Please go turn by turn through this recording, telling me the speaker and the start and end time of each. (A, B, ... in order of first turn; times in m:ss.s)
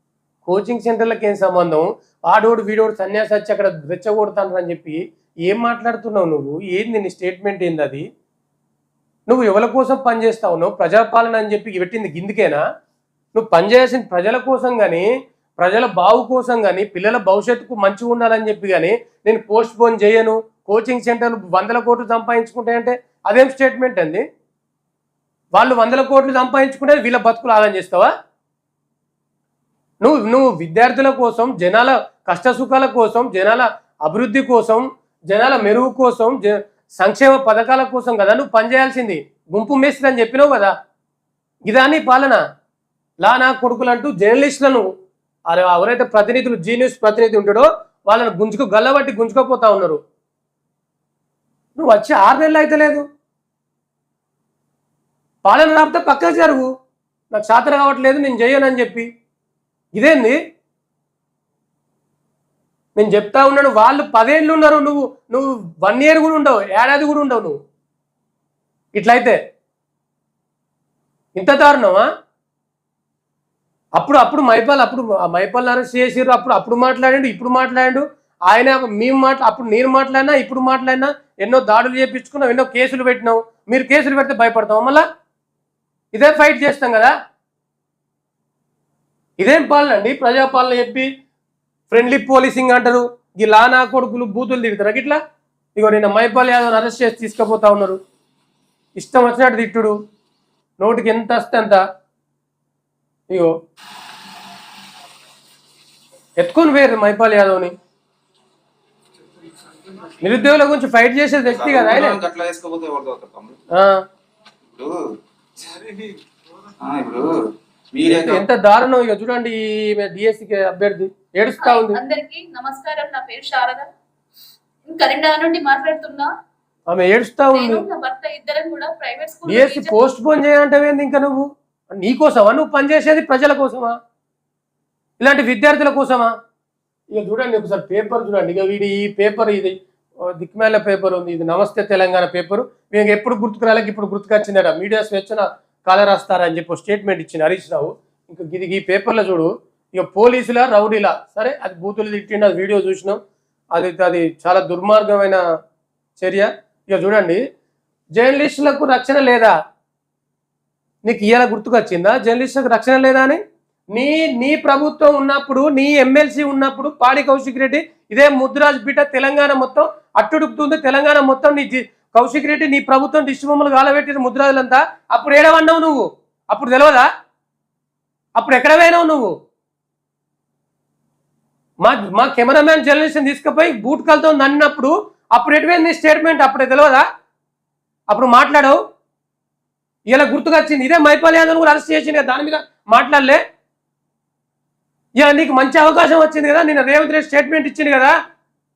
0:00.4-0:08.0 A
0:09.3-0:12.6 A
0:13.3-0:15.1 A
0:15.6-0:24.2 A
0:25.5-0:28.1 A
0:30.0-0:40.7 A
0:41.7-0:42.4 A
0:43.2-0:44.9 A
0:45.5-0:50.0 A
0:51.8-0:53.0 A
0:55.4-0:56.7 A
0:57.3-0:59.1 A
0:59.9-1:00.4 A
1:03.0-1:07.6 A
1:08.9-1:09.4 A
1:11.4-1:12.0 A
1:14.0-1:25.0 A
1:26.1-1:27.1 A
1:29.4-1:31.1 A
1:31.9-1:35.2 A
1:35.8-1:38.0 A
1:39.0-1:40.0 A
1:40.8-1:41.8 A
1:46.4-1:47.7 A
1:50.2-1:52.2 A
1:51.5-1:53.6 B
1:53.7-1:54.0 A
1:54.7-1:55.0 B
1:55.6-1:56.2 B
1:56.8-1:58.4 B
1:58.0-2:02.0 A
2:01.6-2:03.9 C
2:04.9-2:06.3 C
2:06.9-2:07.8 A
2:07.5-2:10.0 C
2:09.5-2:13.9 A
2:15.2-2:16.3 A
2:17.1-2:33.2 A
2:33.7-2:35.4 A
2:36.2-2:37.4 A
2:38.2-2:39.5 A
2:41.0-2:43.4 A
2:43.9-2:57.1 A
2:58.4-2:59.3 A
3:01.8-3:07.0 A
3:08.1-3:08.8 A
3:10.1-3:13.4 A
3:15.2-3:18.1 A